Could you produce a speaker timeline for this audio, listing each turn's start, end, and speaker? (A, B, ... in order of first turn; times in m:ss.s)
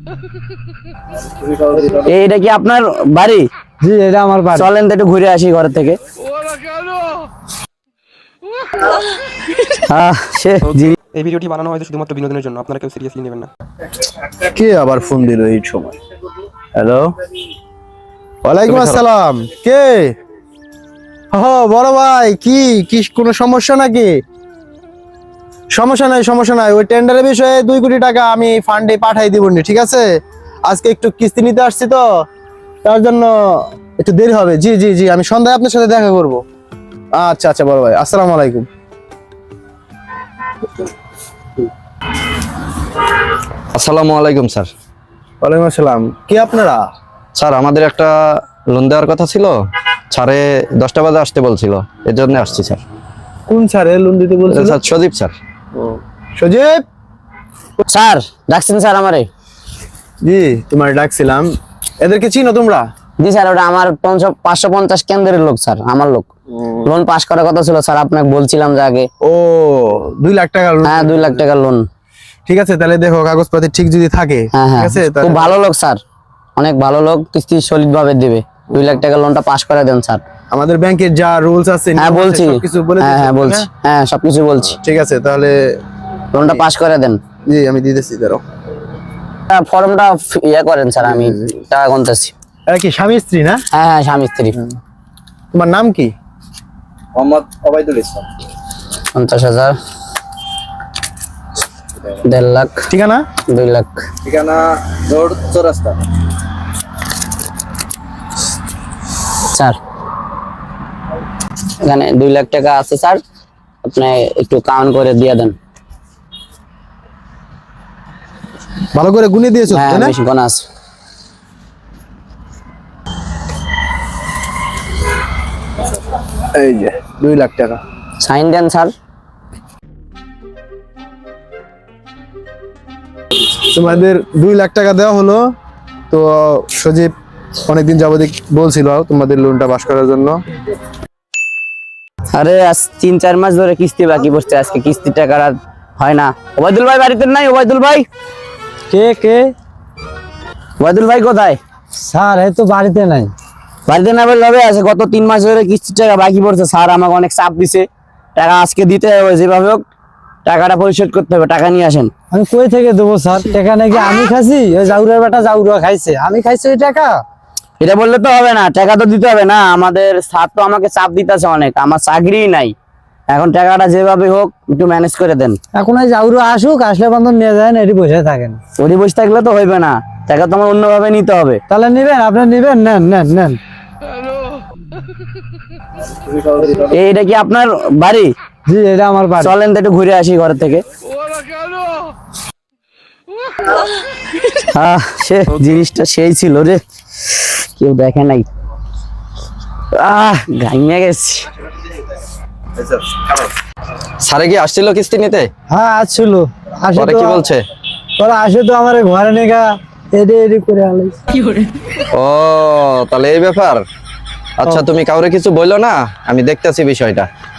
0:02.0-0:03.5 A
0:03.8-0:04.7 B
0:04.5-0:06.0 A
0:09.9-0:10.9 A
0:10.6-0:13.5 C
0:14.2-0:16.0 D
0:16.8-0:17.1 D
0:18.4-0:20.1 D
0:18.7-0:19.0 E
0:21.3-0:24.2 D
0:25.7-0:30.1 D
0:30.6-0:32.1 D
0:32.8-0:36.4 D
0:37.1-0:38.7 D
0:43.7-0:44.7 E
0:45.4-0:46.8 D
0:47.3-0:48.1 E
0:48.7-0:49.5 E
0:50.1-0:52.8 E
0:53.5-0:54.8 D
0:54.5-0:55.3 E
0:55.7-0:56.8 D
0:57.9-0:59.3 A
1:00.2-1:02.8 D
1:03.2-1:06.3 A
1:06.5-1:06.9 D
1:06.8-1:09.1 A
1:09.2-1:11.4 D
1:10.8-1:11.9 A
1:12.5-1:15.5 D
1:14.5-1:16.0 A
1:16.6-1:20.2 A
1:18.7-1:19.0 D
1:20.5-1:23.7 D
1:22.0-1:24.8 A
1:24.7-1:25.8 D
1:26.3-1:27.2 A
1:27.5-1:28.4 D
1:29.5-1:32.3 A
1:31.0-1:31.5 D
1:32.7-1:33.6 D
1:33.7-1:34.6 A
1:35.5-1:36.1 D
1:37.1-1:38.2 E
1:39.1-1:39.7 A
1:42.2-1:42.8 A
1:42.9-1:43.2 D
1:43.5-1:44.0 A
1:44.2-1:45.9 E
1:49.5-1:49.8 A
1:51.8-1:53.2 A
1:53.8-1:55.5 A
1:58.9-2:00.1 D
1:59.7-2:00.6 A
2:06.5-2:07.8 D
2:08.2-2:08.9 A
2:13.7-2:15.5 D
2:16.1-2:17.1 D
2:17.6-2:20.4 D
2:22.3-2:28.1 A
2:28.9-2:29.5 B
2:30.8-2:31.6 A
2:32.0-2:33.3 B
2:33.9-2:39.8 A
2:40.4-2:42.1 A
2:42.3-2:47.2 B
2:47.8-2:52.7 A
2:53.3-2:55.6 A
2:55.7-2:58.6 B
2:58.8-3:01.6 A
3:01.7-3:03.6 B
3:06.6-3:08.3 A
3:08.7-3:09.5 B
3:09.4-3:10.8 A
3:14.5-3:16.8 A
3:17.3-3:18.5 A
3:19.9-3:21.5 A
3:22.8-3:23.4 E
3:24.2-3:25.5 E
3:25.7-3:27.4 B
3:27.0-3:27.6 E
3:28.2-3:31.2 B
3:32.1-3:33.8 E
3:34.6-3:37.3 E